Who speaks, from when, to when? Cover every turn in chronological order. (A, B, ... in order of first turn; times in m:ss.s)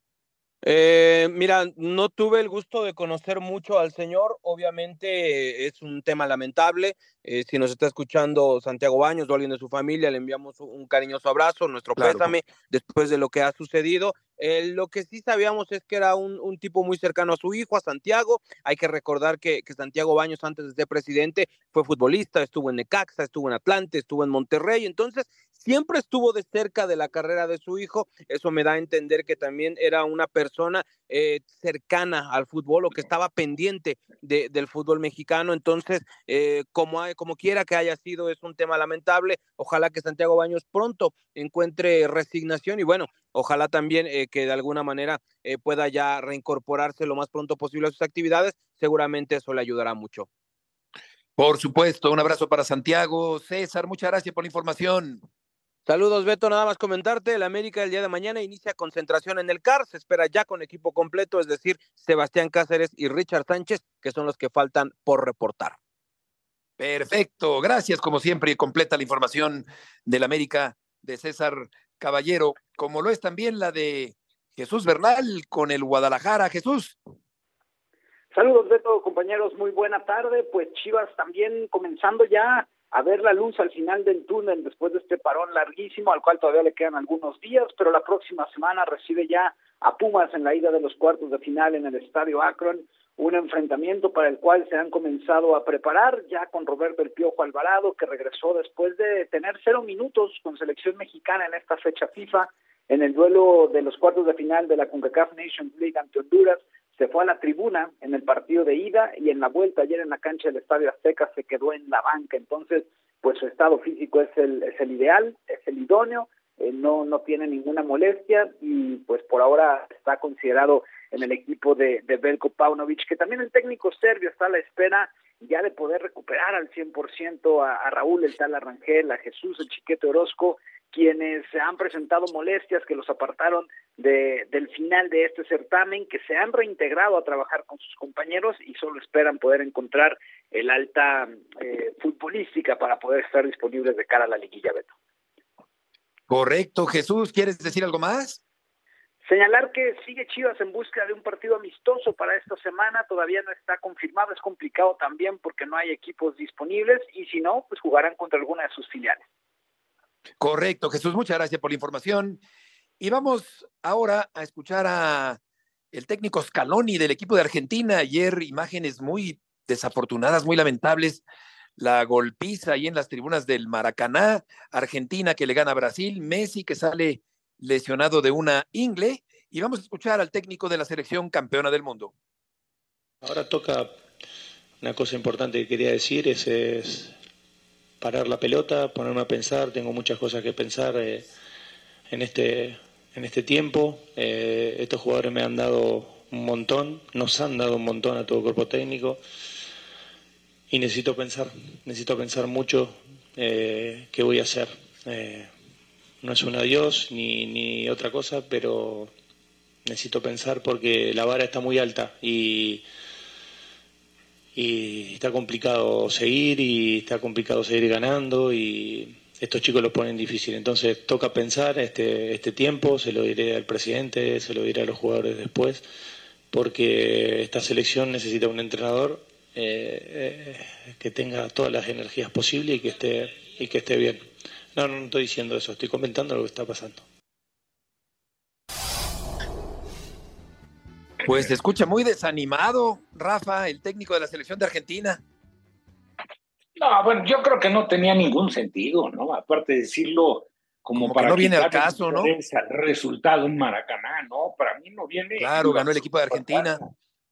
0:00.6-0:50.3 A
0:12.0-0:12.3 B
0:51.4-0:55.2 B
0:55.8-1:05.8 A
1:06.8-1:17.0 B
1:18.3-2:24.9 C
2:26.3-2:28.4 B
2:29.2-2:39.2 C
2:40.4-2:42.4 B
2:43.0-2:45.4 B
2:45.9-2:51.2 B
2:51.8-3:02.1 B
3:03.2-3:03.9 D
3:04.8-3:07.1 D
3:08.0-3:11.2 D
3:12.1-3:19.2 D
3:20.7-3:25.5 D
3:26.2-3:29.1 D
3:29.8-3:32.8 D
3:34.5-3:45.8 D
3:46.5-3:54.2 D
3:54.7-3:57.0 D
4:01.2-4:05.2 B
4:01.3-4:01.5 E
4:06.8-4:16.8 E
4:10.9-4:12.3 B
4:15.4-4:16.8 B